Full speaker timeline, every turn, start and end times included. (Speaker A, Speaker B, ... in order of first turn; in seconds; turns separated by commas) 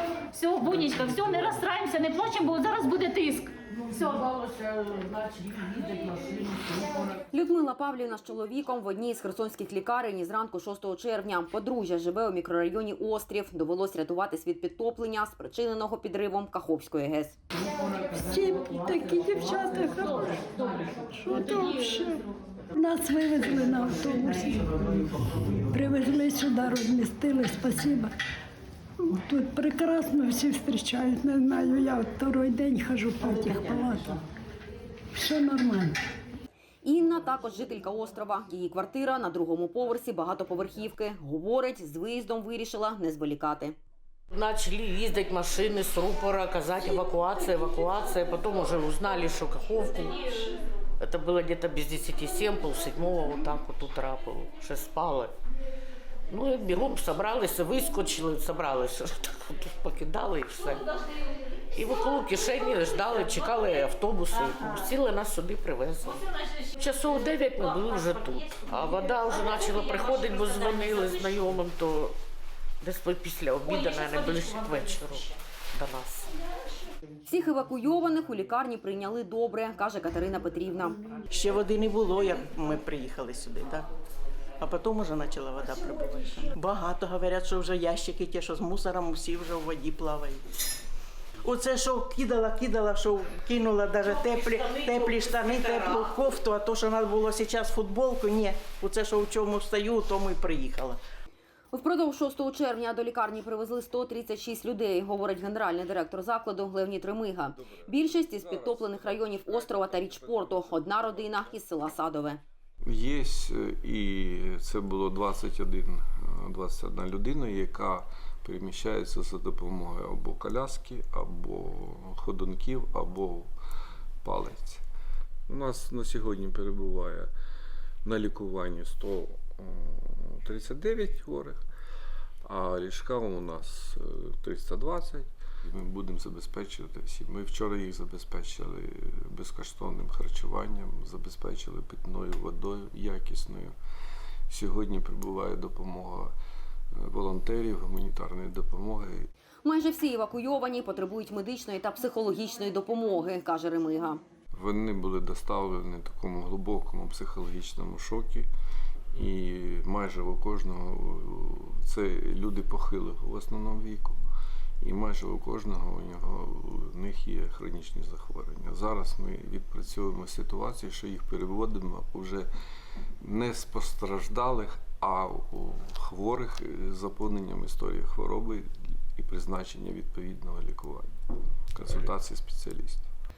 Speaker A: 0.3-4.3, Speaker B: 4.0-5.5, Speaker B: 6.1-6.5, Speaker C: 7.3-17.4, Speaker D: 18.1-20.5, Speaker D: 21.1-24.7, Speaker D: 25.7-28.1, Speaker D: 29.0-34.2, Speaker D: 35.1-36.0, Speaker C: 36.8-43.8, Speaker B: 44.3-55.3, Speaker B: 56.3-60.9, Speaker B: 61.7-72.2, Speaker B: 72.8-76.3, Speaker C: 77.2-81.0, Speaker E: 81.3-83.9, Speaker E: 84.6-90.4, Speaker E: 91.4-101.0, Speaker B: 94.2-96.0, Speaker C: 101.7-112.4, Speaker F: 107.5-111.5, Speaker F: 112.8-123.5, Speaker F: 124.2-124.8, Speaker F: 125.5-127.3, Speaker F: 128.1-131.6, Speaker F: 132.4-143.8, Speaker F: 144.5-146.3, Speaker F: 146.9-149.3, Speaker C: 149.6-154.2, Speaker F: 154.5-158.5, Speaker F: 159.1-164.2, Speaker F: 164.8-172.5, Speaker F: 173.2-181.1, Speaker F: 181.7-183.1